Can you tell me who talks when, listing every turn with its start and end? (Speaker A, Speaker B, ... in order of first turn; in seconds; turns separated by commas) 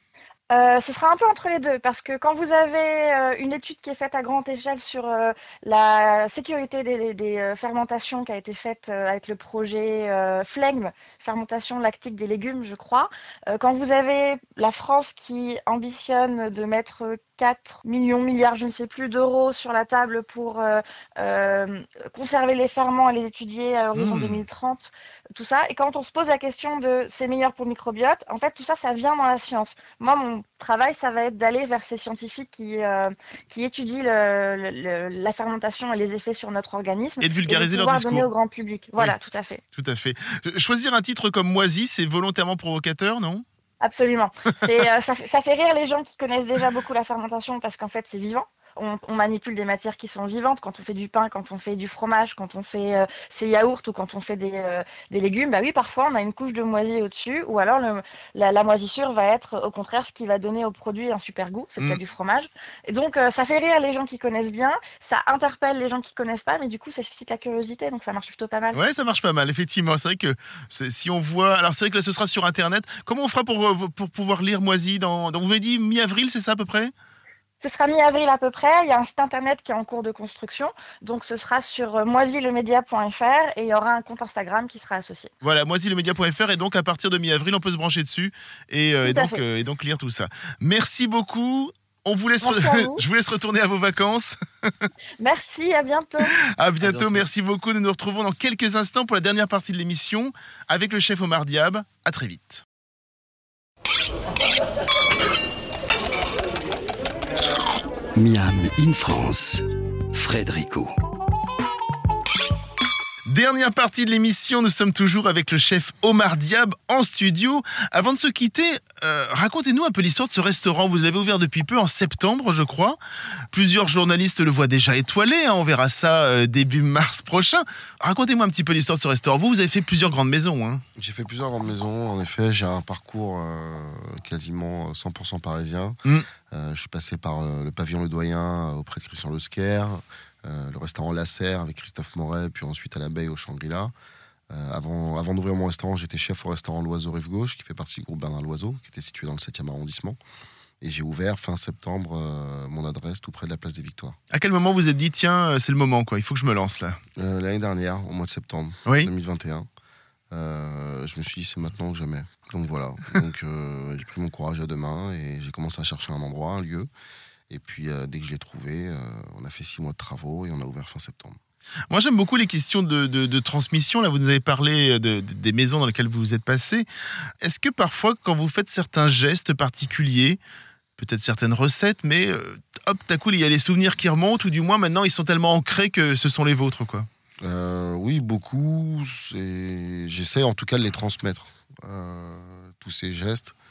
Speaker A: 0.5-39.6, Speaker B: 23.9-24.4, Speaker B: 37.2-38.3, Speaker B: 39.7-43.4, Speaker A: 43.8-68.8, Speaker B: 68.7-76.9, Speaker A: 77.6-85.3, Speaker B: 85.4-94.9, Speaker A: 89.0-89.4, Speaker A: 92.4-93.0, Speaker A: 95.2-96.3, Speaker B: 96.6-102.6, Speaker C: 108.2-110.9, Speaker B: 113.3-123.0, Speaker B: 123.5-130.8, Speaker D: 130.9-136.0, Speaker D: 136.5-143.9, Speaker D: 144.5-150.2, Speaker D: 150.8-154.2, Speaker B: 154.3-157.0, Speaker D: 157.2-159.7, Speaker D: 160.3-166.9, Speaker D: 167.5-171.4, Speaker B: 171.9-176.9, Speaker B: 177.4-180.4, Speaker B: 181.0-187.1, Speaker D: 187.4-193.5